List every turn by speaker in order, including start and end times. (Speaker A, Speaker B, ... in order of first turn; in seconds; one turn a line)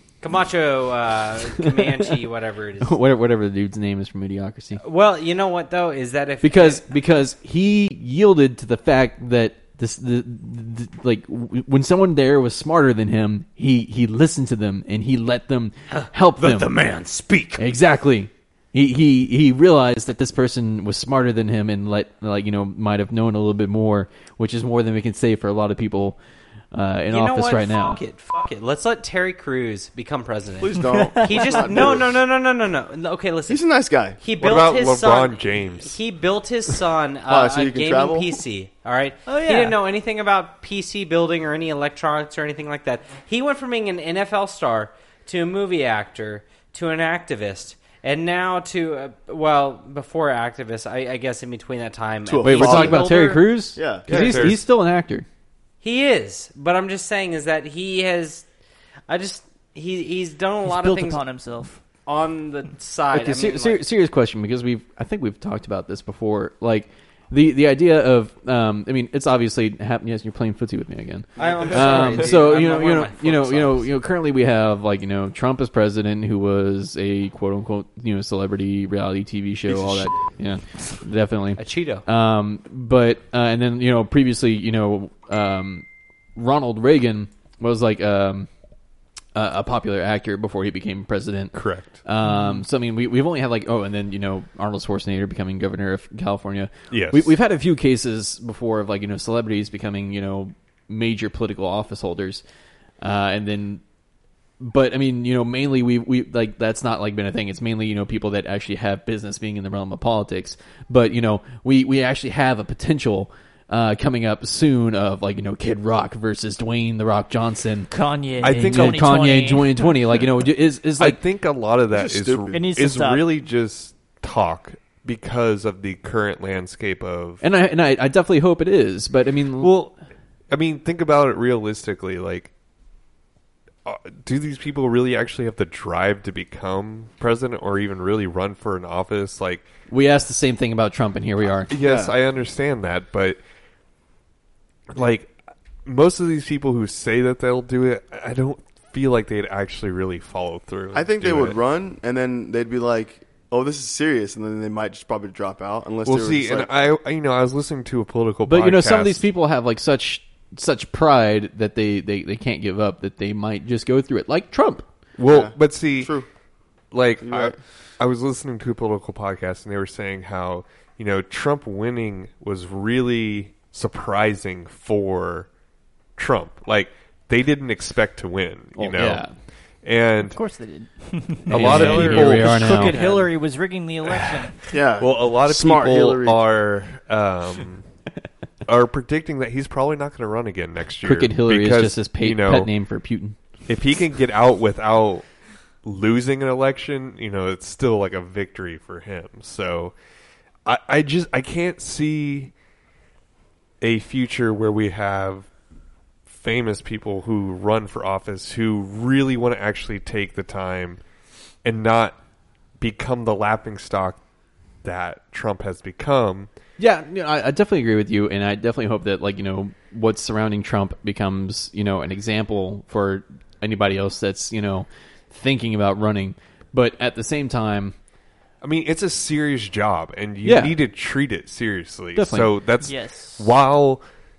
Speaker A: 0.2-3.0
Speaker B: 1.6-2.1
Speaker B: 2.8-4.8
Speaker A: 4.8-6.8
Speaker B: 6.4-16.7
Speaker A: 15.9-17.6
Speaker B: 17.6-26.2
Speaker B: 26.7-28.0
Speaker A: 27.1-33.6
Speaker C: 30.6-32.1
Speaker D: 30.9-31.6
Speaker C: 33.5-34.2
Speaker A: 34.2-53.5
Speaker E: 34.4-36.0
Speaker C: 37.3-38.3
Speaker D: 39.2-39.8
Speaker C: 52.2-53.1
Speaker B: 52.4-55.2
Speaker C: 53.7-54.1
Speaker E: 54.1-54.6
Speaker A: 54.1-54.4
Speaker A: 55.8-58.5
Speaker A: 59.1-61.2
Speaker D: 60.6-61.8
Speaker A: 62.0-63.8
Speaker B: 63.1-85.8
Speaker C: 71.4-72.3
Speaker A: 71.4-73.9
Speaker C: 79.7-80.1
Speaker A: 81.6-82.0
Speaker B: 86.3-88.5
Speaker B: 89.3-102.4
Speaker E: 91.5-92.0
Speaker D: 92.2-92.7
Speaker E: 96.9-97.3
Speaker B: 103.0-103.8
Speaker B: 104.6-121.2
Speaker D: 117.9-119.9
Speaker E: 118.4-119.1
Speaker E: 121.0-127.4
Speaker C: 121.9-122.6
Speaker D: 122.5-123.3
Speaker B: 127.4-129.7
Speaker E: 129.6-129.9
Speaker E: 130.5-132.5
Speaker E: 133.8-139.7
Speaker B: 139.9-141.7
Speaker E: 141.7-143.4
Speaker C: 141.7-142.1
Speaker E: 144.9-145.3
Speaker E: 145.8-151.5
Speaker C: 150.9-156.7
Speaker E: 156.0-159.2
Speaker B: 158.4-164.8
Speaker E: 165.2-166.1
Speaker C: 165.3-166.3
Speaker E: 166.9-175.5
Speaker C: 167.2-167.5
Speaker E: 176.2-179.3
Speaker B: 178.8-179.3
Speaker E: 179.8-180.4
Speaker D: 180.2-184.7
Speaker B: 181.5-183.0
Speaker E: 181.5-183.0
Speaker A: 181.6-182.3
Speaker E: 184.2-187.8
Speaker C: 184.7-186.4
Speaker E: 188.7-192.7
Speaker B: 191.0-193.3
Speaker E: 193.7-195.2
Speaker E: 195.8-199.9
Speaker E: 200.6-202.5
Speaker E: 203.8-205.5
Speaker E: 206.3-211.0
Speaker E: 211.6-212.2
Speaker E: 212.8-214.2
Speaker E: 214.8-216.5
Speaker B: 216.8-227.9
Speaker E: 228.6-234.0
Speaker B: 230.4-230.8
Speaker B: 232.1-232.5
Speaker D: 232.8-233.5